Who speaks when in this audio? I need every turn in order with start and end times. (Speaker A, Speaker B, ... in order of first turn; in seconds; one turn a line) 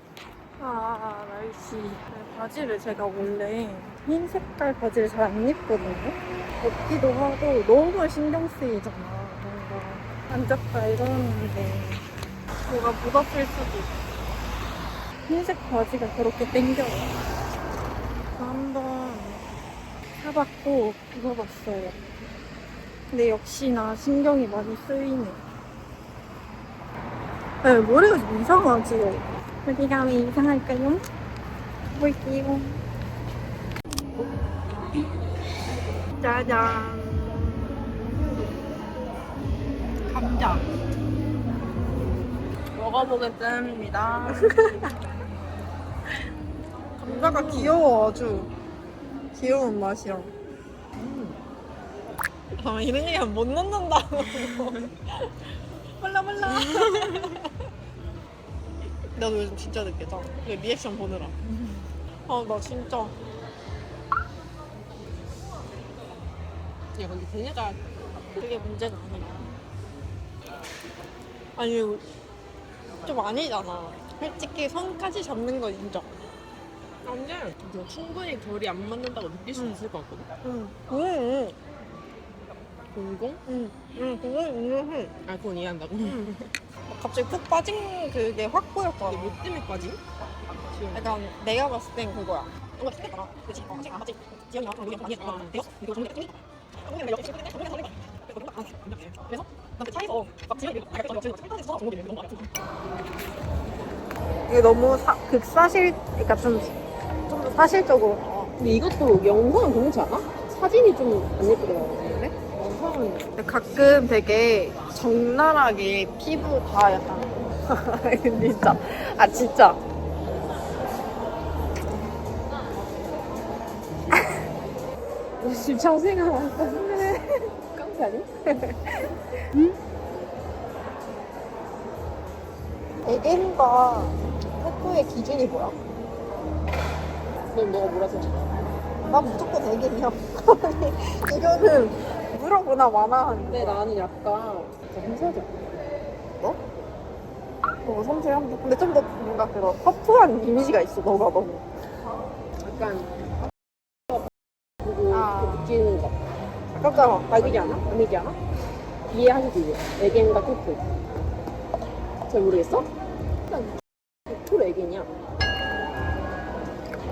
Speaker A: 0.6-12.1
Speaker A: 12.7-14.1
Speaker A: 15.3-17.1
Speaker A: 18.4-19.5
Speaker A: 20.2-22.0
Speaker A: 23.1-25.4
Speaker A: 27.6-31.0
Speaker A: 31.9-32.8
Speaker A: 36.2-37.3
Speaker A: 40.0-40.6
Speaker B: 42.8-44.5
Speaker A: 44.3-44.9
Speaker A: 47.0-48.5
Speaker B: 47.1-47.8
Speaker A: 49.3-50.3
Speaker B: 51.0-51.4
Speaker A: 52.5-54.9
Speaker A: 56.0-57.5
Speaker A: 59.1-61.4
Speaker A: 62.3-63.1
Speaker B: 67.0-67.8
Speaker A: 68.3-69.5
Speaker A: 71.6-72.1
Speaker A: 73.0-76.1
Speaker B: 77.0-80.3
Speaker A: 79.5-79.8
Speaker A: 80.4-81.6
Speaker B: 82.9-83.4
Speaker A: 83.5-85.2
Speaker B: 85.3-86.3
Speaker A: 86.0-89.4
Speaker B: 89.0-91.1
Speaker A: 90.9-102.5
Speaker B: 95.2-95.5
Speaker A: 104.5-106.8
Speaker A: 107.3-108.5
Speaker B: 108.6-113.3
Speaker A: 112.0-112.3
Speaker A: 113.4-119.8
Speaker B: 125.4-126.9
Speaker A: 126.6-127.4
Speaker B: 127.7-128.3
Speaker A: 133.1-135.8
Speaker B: 137.5-138.7
Speaker A: 139.1-143.8
Speaker B: 143.5-145.7
Speaker A: 147.8-151.7
Speaker B: 152.6-153.2
Speaker B: 154.8-156.2
Speaker A: 155.1-155.7
Speaker A: 156.7-157.8
Speaker B: 157.3-158.4
Speaker B: 159.1-160.9
Speaker B: 162.3-162.9
Speaker B: 163.5-163.7
Speaker B: 164.3-165.1